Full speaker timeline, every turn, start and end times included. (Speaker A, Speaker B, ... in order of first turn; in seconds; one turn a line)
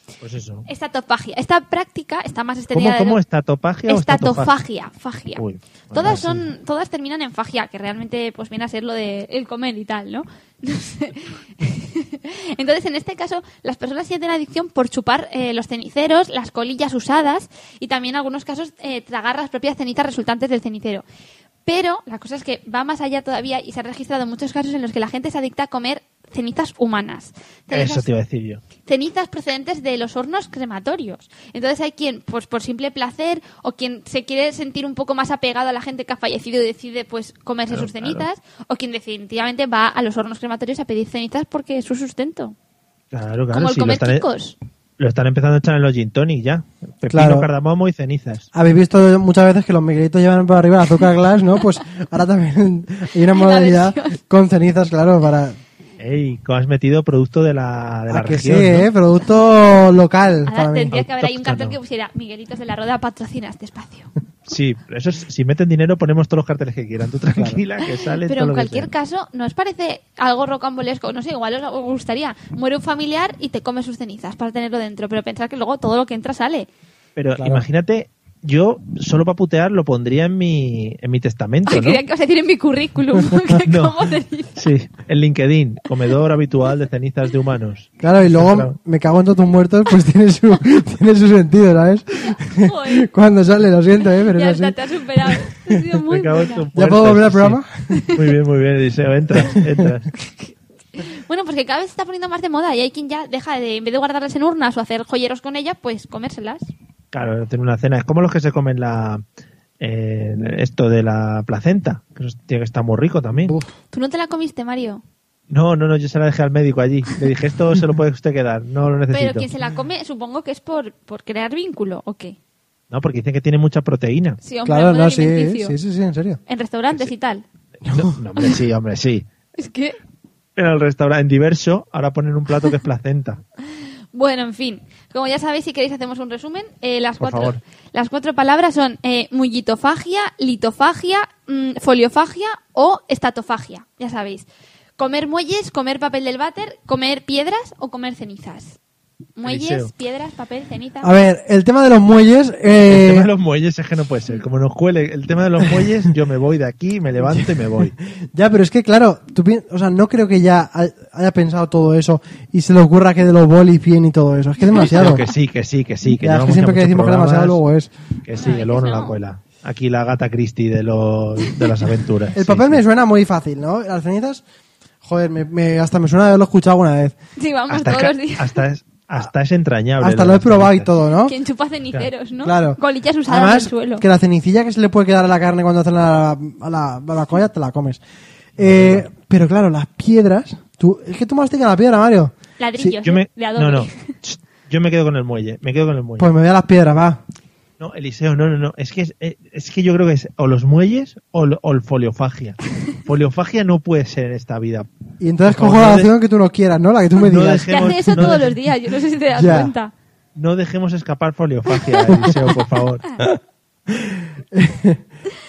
Speaker A: 0.2-0.7
Speaker B: 0.7-3.2
Speaker A: 2.7-4.5
Speaker B: 3.9-5.4
Speaker A: 5.4-6.5
Speaker B: 5.9-21.0
Speaker B: 21.6-28.1
Speaker A: 27.7-28.6
Speaker B: 28.9-42.5
Speaker A: 37.7-38.2
Speaker A: 43.1-44.2
Speaker B: 43.5-44.5
Speaker A: 45.0-48.5
Speaker C: 47.1-47.5
Speaker C: 48.5-55.6
Speaker B: 53.3-54.1
Speaker A: 56.0-58.9
Speaker C: 58.1-60.9
Speaker B: 60.5-64.1
Speaker A: 60.9-61.8
Speaker A: 64.5-68.9
Speaker C: 67.3-67.6
Speaker B: 68.2-76.7
Speaker A: 77.2-82.0
Speaker C: 77.4-77.6
Speaker B: 81.7-84.7
Speaker A: 83.7-84.0
Speaker A: 84.6-88.7
Speaker C: 88.0-94.8
Speaker B: 92.5-93.1
Speaker B: 94.3-96.6
Speaker A: 96.1-100.1
Speaker C: 96.7-97.7
Speaker B: 97.9-98.2
Speaker C: 99.4-99.9
Speaker B: 100.2-106.7
Speaker A: 107.1-109.2
Speaker A: 109.8-113.5
Speaker B: 113.9-115.0
Speaker A: 115.5-119.5
Speaker B: 119.1-122.4
Speaker A: 122.9-124.4
Speaker B: 124.4-125.7
Speaker C: 124.6-126.4
Speaker B: 126.5-127.4
Speaker A: 127.8-129.2
Speaker C: 127.9-128.1
Speaker B: 129.6-130.0
Speaker A: 130.6-133.4
Speaker B: 134.1-144.4
Speaker A: 137.2-137.6
Speaker B: 145.0-148.8
Speaker B: 149.4-151.1
Speaker A: 149.4-149.9
Speaker C: 151.0-153.3
Speaker A: 152.9-157.9
Speaker C: 157.2-165.2
Speaker A: 164.8-167.6
Speaker C: 166.2-167.9
Speaker A: 168.2-172.8
Speaker B: 168.4-169.2
Speaker C: 172.3-174.4
Speaker C: 175.0-177.1
Speaker B: 177.4-178.6
Speaker A: 177.7-180.9
Speaker C: 180.0-181.3
Speaker B: 181.2-184.0
Speaker C: 182.4-188.0
Speaker C: 188.6-192.9
Speaker A: 188.6-189.1
Speaker B: 192.6-194.1
Speaker A: 193.0-196.3
Speaker C: 196.2-197.2
Speaker A: 197.8-204.9
Speaker C: 205.2-208.4
Speaker A: 205.4-206.1
Speaker A: 207.2-208.5
Speaker B: 207.7-209.9
Speaker C: 209.4-209.7
Speaker A: 210.3-213.1
Speaker C: 212.1-212.4
Speaker C: 213.9-215.0